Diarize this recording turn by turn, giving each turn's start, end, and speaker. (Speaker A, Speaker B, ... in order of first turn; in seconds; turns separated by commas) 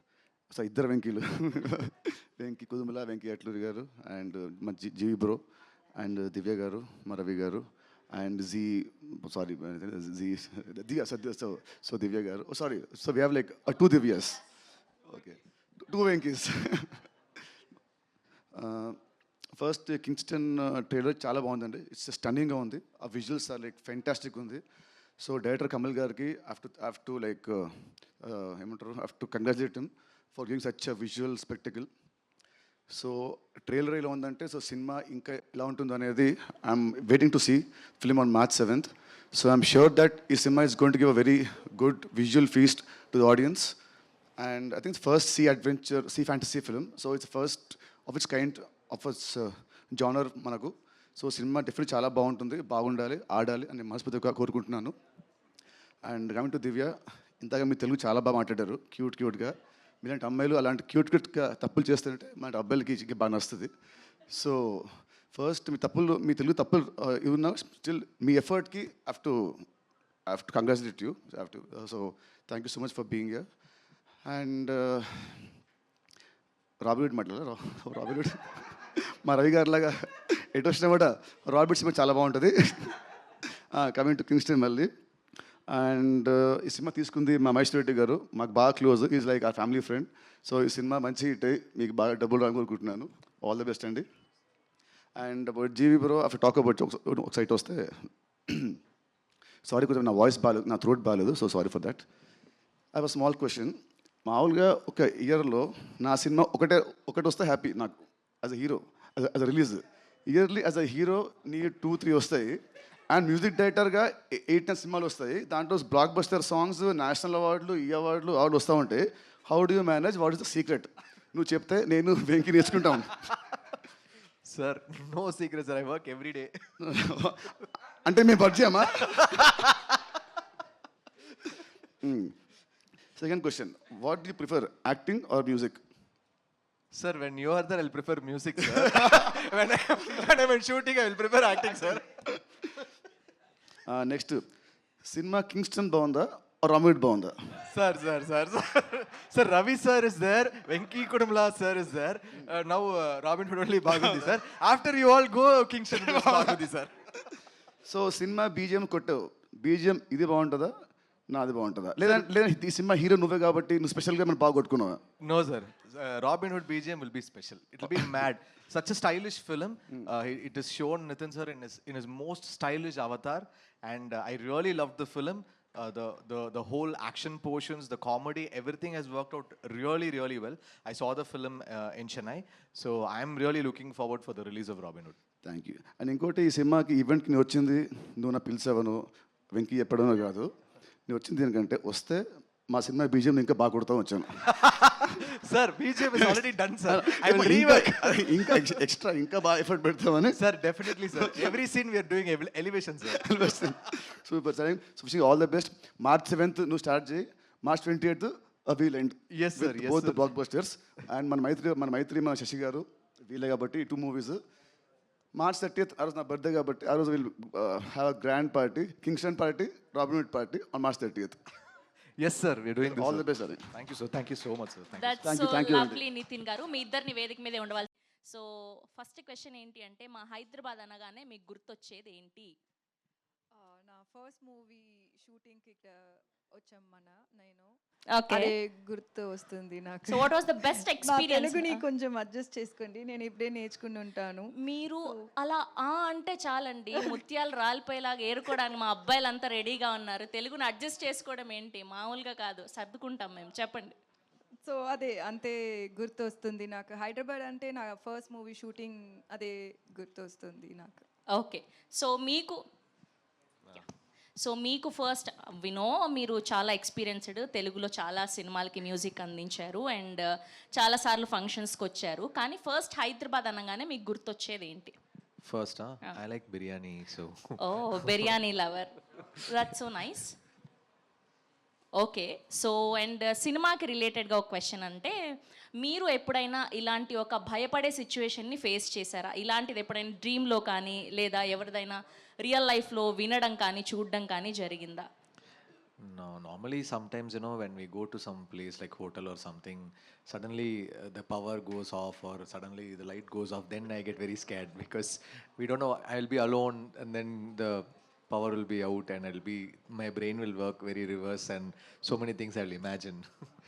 Speaker A: 0.5-5.4, Speaker A: 6.0-14.4, Speaker A: 15.0-17.1, Speaker A: 18.5-19.0, Speaker A: 19.6-24.6, Speaker A: 25.2-31.9, Speaker A: 32.9-43.7, Speaker A: 44.4-54.9, Speaker A: 56.0-63.7, Speaker A: 64.3-69.7, Speaker A: 70.3-73.5, Speaker A: 74.2-75.5, Speaker A: 76.8-83.0, Speaker A: 83.7-84.9, Speaker A: 85.7-94.0, Speaker A: 95.2-98.8, Speaker A: 99.7-102.0, Speaker A: 102.9-123.2, Speaker B: 123.5-123.8, Speaker B: 124.4-126.7, Speaker A: 126.8-129.6, Speaker B: 129.1-130.0, Speaker A: 132.0-132.3, Speaker A: 133.2-135.8, Speaker B: 136.9-142.2, Speaker A: 143.9-144.4, Speaker A: 145.0-147.6, Speaker B: 147.7-156.9, Speaker A: 153.9-154.3, Speaker A: 156.0-156.6, Speaker A: 157.9-160.7, Speaker A: 161.3-165.0, Speaker B: 165.2-185.2, Speaker A: 185.4-190.5, Speaker A: 191.1-194.5, Speaker B: 194.4-198.8, Speaker A: 196.9-201.5, Speaker B: 200.3-203.5, Speaker A: 203.1-214.4, Speaker B: 209.3-210.3, Speaker A: 215.3-221.4, Speaker B: 222.2-225.2, Speaker A: 222.9-223.7, Speaker C: 225.0-232.5, Speaker A: 225.2-226.0, Speaker D: 233.5-237.7, Speaker C: 238.2-238.5, Speaker D: 238.3-240.3, Speaker C: 240.1-241.8, Speaker D: 240.9-244.5, Speaker C: 244.6-253.9, Speaker D: 254.6-261.0, Speaker C: 261.4-262.6, Speaker C: 264.4-270.2, Speaker C: 270.8-274.9, Speaker B: 275.4-278.3, Speaker C: 277.6-280.3, Speaker C: 282.0-285.1, Speaker C: 285.8-295.0, Speaker B: 296.0-313.2